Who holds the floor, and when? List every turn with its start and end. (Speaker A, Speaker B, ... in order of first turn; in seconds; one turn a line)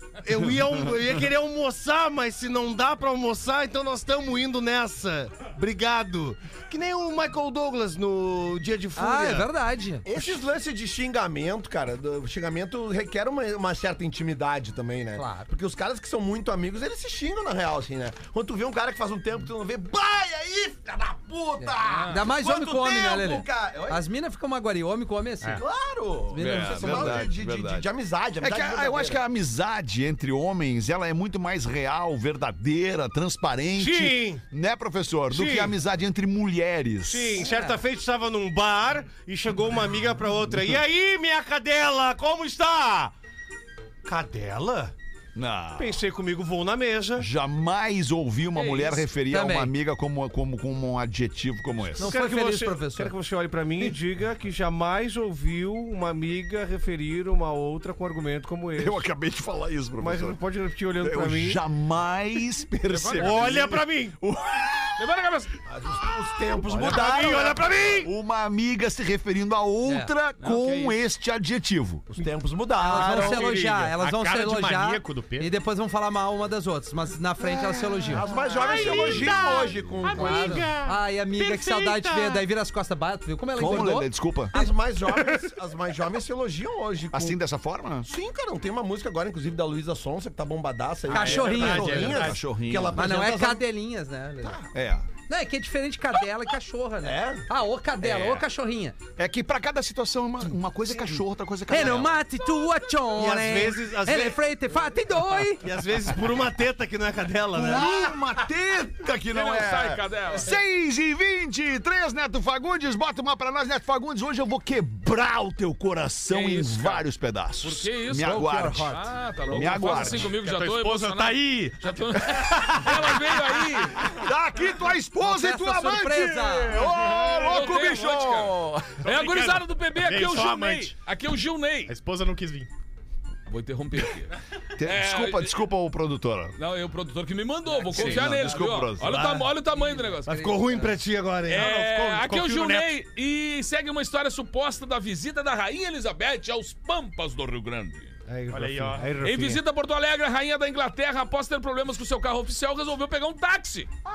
Speaker A: 0.2-9.5
Speaker B: 8.9-10.1
Speaker C: 10.0-24.0
Speaker B: 15.2-15.5
Speaker B: 21.6-25.6
Speaker D: 21.8-22.2
Speaker C: 25.5-29.2
Speaker B: 26.3-27.3
Speaker E: 26.4-27.9
Speaker E: 28.4-37.5
Speaker A: 33.8-34.4
Speaker A: 35.3-35.7
Speaker A: 37.0-43.1
Speaker B: 37.4-37.8
Speaker A: 44.0-44.9
Speaker E: 45.3-46.0
Speaker A: 45.8-47.3
Speaker E: 47.2-52.1
Speaker D: 48.5-49.0
Speaker B: 49.3-49.7
Speaker A: 52.0-59.0
Speaker B: 52.0-53.1
Speaker E: 58.8-60.4
Speaker A: 60.0-61.6
Speaker E: 61.0-65.0
Speaker D: 62.9-63.6
Speaker A: 63.1-64.2
Speaker D: 65.0-65.5
Speaker C: 65.7-67.7
Speaker A: 66.7-68.1
Speaker E: 66.7-72.0
Speaker B: 69.8-70.1
Speaker D: 70.4-71.0
Speaker C: 72.1-73.5
Speaker B: 72.8-78.3
Speaker F: 73.0-75.5
Speaker C: 78.1-80.7
Speaker F: 78.5-82.4
Speaker A: 78.7-79.0
Speaker B: 80.0-84.7
Speaker A: 80.5-80.7
Speaker E: 83.5-84.5
Speaker C: 84.5-87.4
Speaker E: 87.1-88.1
Speaker C: 88.0-93.6
Speaker B: 91.1-92.2
Speaker F: 91.1-92.4
Speaker E: 91.9-93.1
Speaker B: 92.9-94.6
Speaker C: 94.4-94.7
Speaker E: 94.7-95.1
Speaker B: 95.3-99.0
Speaker C: 97.0-97.5
Speaker E: 98.0-98.4
Speaker E: 99.2-102.2
Speaker B: 101.7-105.7
Speaker A: 103.2-104.4
Speaker A: 105.6-108.0
Speaker E: 107.5-120.3
Speaker D: 109.3-110.5
Speaker D: 116.3-117.0
Speaker D: 117.6-124.2
Speaker B: 118.2-119.0
Speaker F: 119.8-121.9
Speaker E: 122.2-123.4
Speaker E: 123.9-129.1
Speaker B: 125.2-126.8
Speaker D: 127.4-131.9
Speaker F: 129.0-130.9
Speaker F: 131.9-132.7
Speaker D: 133.5-135.5
Speaker E: 134.8-136.6
Speaker D: 136.6-140.5
Speaker B: 137.7-138.4
Speaker E: 137.9-139.2
Speaker A: 139.1-139.4
Speaker B: 139.7-140.9
Speaker A: 140.2-142.0
Speaker D: 141.5-148.1
Speaker F: 141.6-142.8
Speaker A: 148.3-149.6
Speaker F: 148.5-149.2
Speaker D: 149.2-153.9